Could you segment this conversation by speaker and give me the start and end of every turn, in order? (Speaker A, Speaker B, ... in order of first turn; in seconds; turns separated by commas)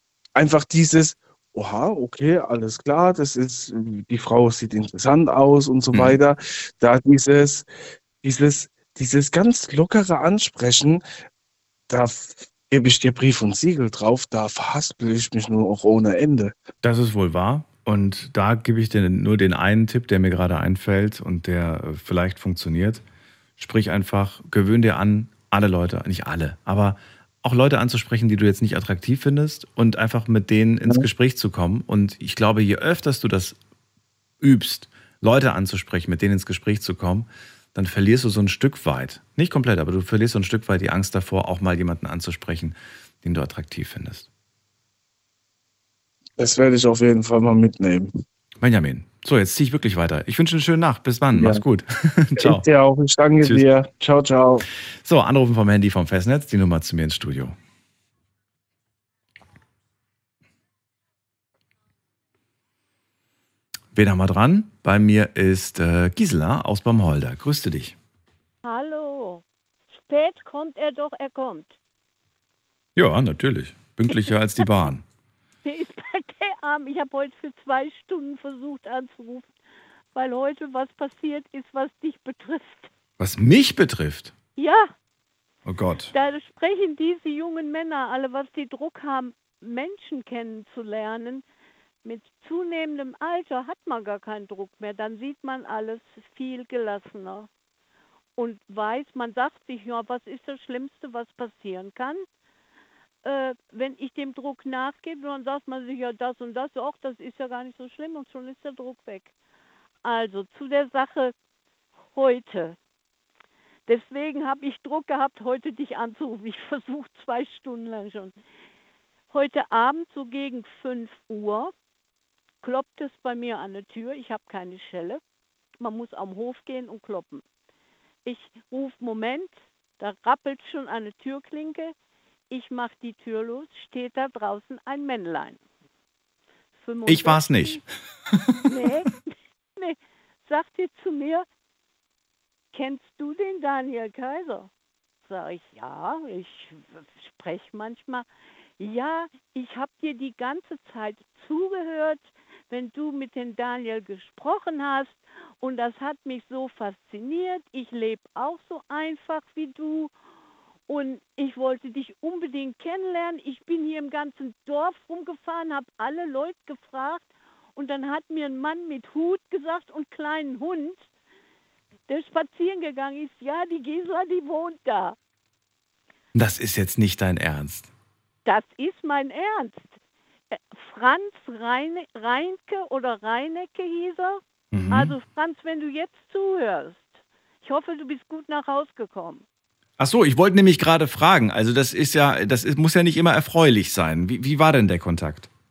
Speaker A: 0.4-7.7, Speaker B: 5.9-6.2, Speaker A: 8.2-11.0, Speaker A: 11.9-16.6, Speaker B: 16.8-23.0, Speaker B: 23.6-33.6, Speaker B: 34.4-44.3, Speaker A: 46.4-48.1, Speaker B: 48.6-52.6, Speaker A: 51.3-51.6, Speaker A: 52.4-54.6, Speaker B: 55.0-57.6, Speaker B: 63.9-68.0, Speaker C: 68.6-69.4, Speaker C: 70.0-71.8, Speaker B: 73.0-75.0, Speaker C: 74.1-74.9, Speaker C: 75.6-79.5, Speaker C: 80.1-82.9, Speaker B: 83.2-84.3, Speaker C: 84.6-84.9, Speaker B: 85.7-86.1, Speaker C: 86.1-91.4, Speaker C: 92.0-97.5, Speaker C: 98.4-102.2, Speaker C: 103.2-109.3, Speaker C: 110.0-111.3, Speaker C: 112.1-112.8, Speaker C: 113.9-118.3, Speaker C: 119.3-121.7, Speaker C: 122.6-125.2, Speaker C: 125.8-127.4, Speaker C: 128.3-131.9, Speaker C: 132.5-135.6, Speaker C: 136.8-137.8, Speaker B: 137.1-137.9, Speaker C: 138.7-141.5, Speaker C: 142.7-144.7, Speaker C: 145.3-148.3, Speaker C: 148.8-160.1, Speaker C: 160.9-171.1, Speaker C: 172.1-175.2, Speaker B: 176.3-177.9, Speaker C: 178.5-180.0, Speaker C: 180.5-189.4, Speaker B: 184.7-185.2, Speaker B: 190.0-195.5